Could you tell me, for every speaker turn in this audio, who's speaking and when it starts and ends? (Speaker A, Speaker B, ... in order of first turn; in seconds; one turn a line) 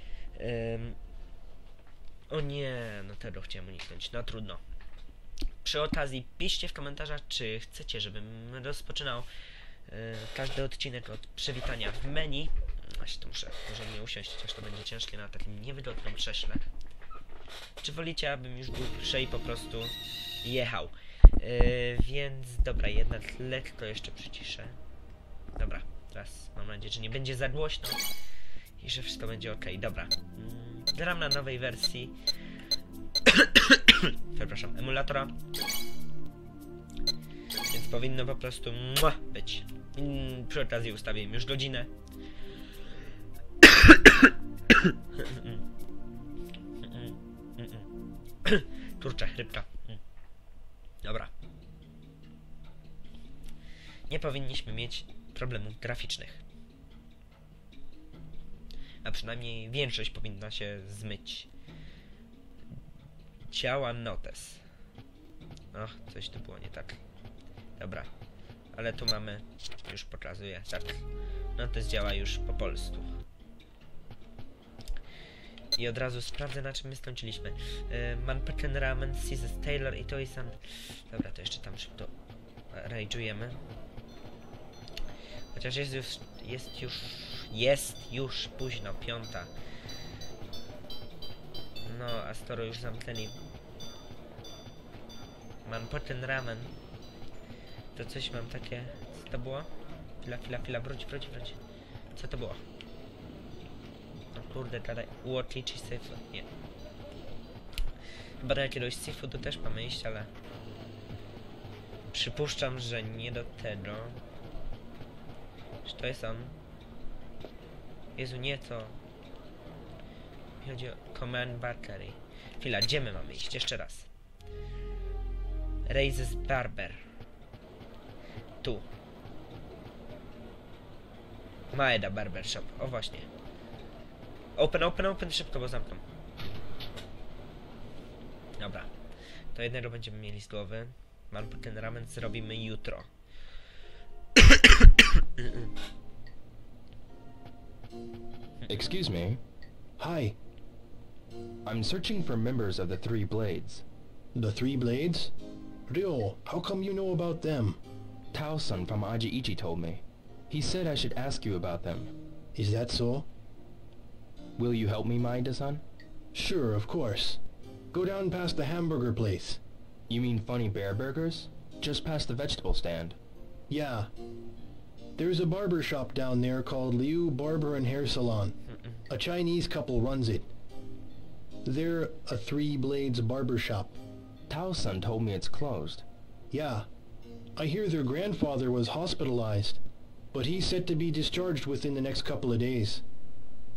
Speaker A: 0.4-1.0
Speaker A: 2.3-4.6
Speaker A: 5.6-9.3
Speaker A: 9.9-16.7
Speaker A: 17.8-24.8
Speaker A: 25.6-28.0
Speaker A: 28.8-32.1
Speaker A: 33.3-35.3
Speaker A: 37.7-41.9
Speaker A: 43.6-45.6
Speaker A: 46.8-47.9
Speaker A: 48.5-50.0
Speaker A: 51.0-51.3
Speaker A: 54.1-56.4
Speaker A: 59.0-61.5
Speaker A: 63.5-64.6
Speaker A: 65.7-67.0
Speaker A: 67.8-68.1
Speaker A: 68.7-71.0
Speaker A: 71.6-73.1
Speaker A: 75.8-82.1
Speaker A: 82.7-83.6
Speaker A: 85.5-89.5
Speaker A: 91.8-93.4
Speaker A: 95.7-96.7
Speaker A: 97.9-99.7
Speaker A: 100.2-101.6
Speaker A: 102.1-102.6
Speaker A: 104.3-106.5
Speaker A: 108.4-110.3
Speaker A: 112.1-114.2
Speaker A: 115.8-116.6
Speaker A: 118.2-119.0
Speaker A: 120.6-124.1
Speaker A: 125.9-127.0
Speaker A: 131.7-133.3
Speaker A: 134.6-136.0
Speaker A: 138.6-138.9
Speaker A: 139.5-143.1
Speaker A: 144.4-144.9
Speaker A: 145.4-145.7
Speaker B: 148.7-149.4
Speaker C: 150.0-150.4
Speaker B: 151.7-153.8
Speaker C: 154.3-155.3
Speaker C: 155.9-157.8
Speaker B: 158.3-162.1
Speaker C: 162.6-163.3
Speaker B: 164.6-165.8
Speaker C: 166.3-167.4
Speaker C: 167.9-169.6
Speaker B: 170.1-173.2
Speaker C: 173.7-174.1
Speaker C: 175.2-178.6
Speaker C: 179.1-180.5
Speaker C: 181.7-184.0
Speaker B: 184.5-186.1
Speaker C: 186.5-186.8
Speaker C: 187.6-189.8
Speaker C: 190.3-193.0